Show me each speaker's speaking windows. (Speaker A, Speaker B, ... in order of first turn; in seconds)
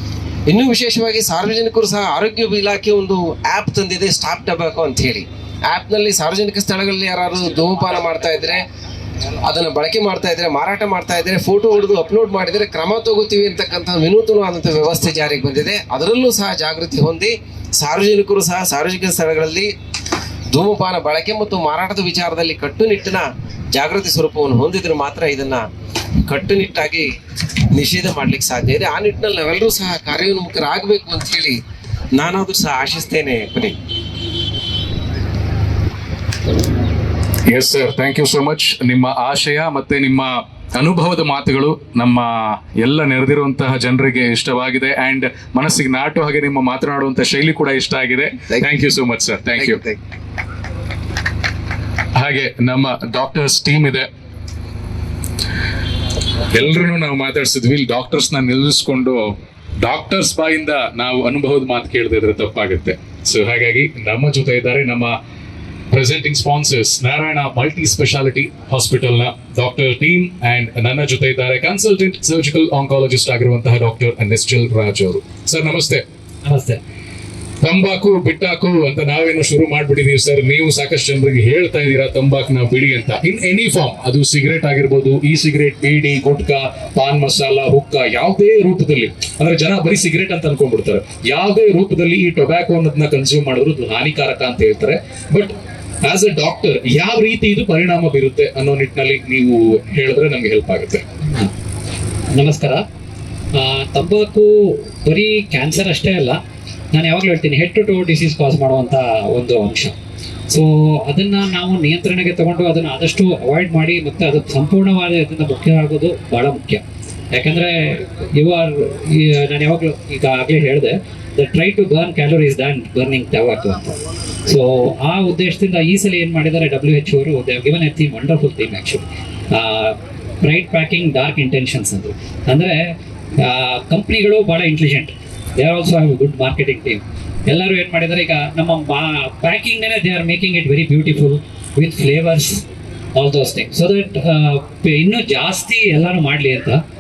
Speaker A: 0.5-8.7, 9.4-19.7, 20.5-25.7, 26.3-27.1, 27.7-31.6, 32.1-33.8, 49.6-50.0
Speaker B: 37.5-49.8, 52.2-54.1, 56.5-65.2, 65.9-76.0, 77.6-101.0
Speaker C: 76.5-76.8, 101.2-101.5, 102.3-102.8, 103.6-106.4, 106.9-110.0, 110.5-142.6, 143.2-146.8